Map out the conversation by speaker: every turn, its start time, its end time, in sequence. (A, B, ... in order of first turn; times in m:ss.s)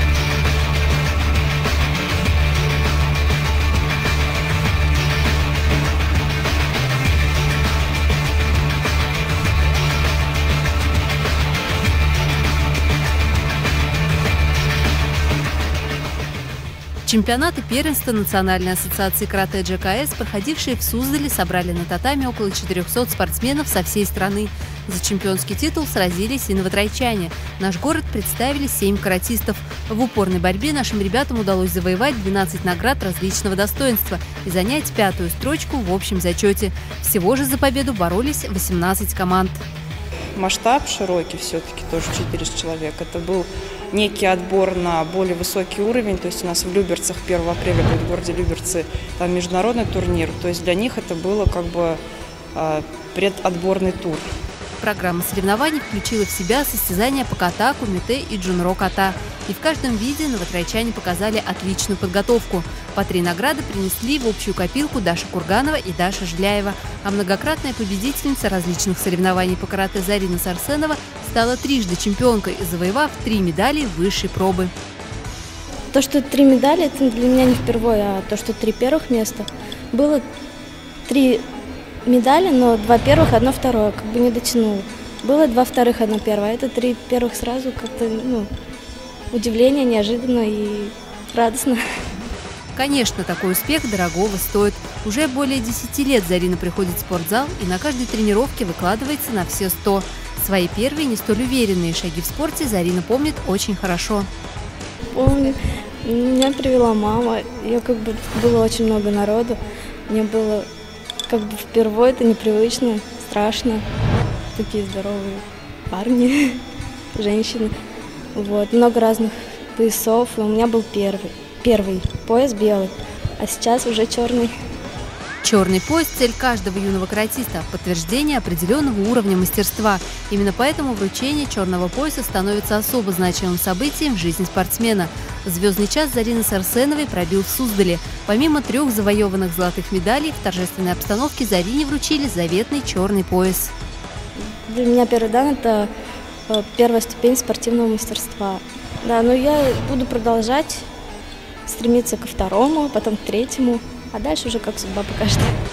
0:17.0-0:39.6 A
0:40.4-0:52.0 B
0:52.5-0:54.3 B
0:54.8-1:14.7 A
1:15.9-1:20.2 C
1:21.0-1:21.5 C
1:22.0-1:28.5 C
1:29.3-1:31.8 C
1:32.7-1:44.3 A
1:45.1-1:50.7 C
1:51.3-1:53.8 C
1:54.5-1:56.6 C
1:57.1-1:57.7 C
1:58.3-2:04.5 C
2:05.4-2:23.7 A
2:24.4-2:25.9 C
2:26.5-2:30.9 C
2:31.6-2:35.5 C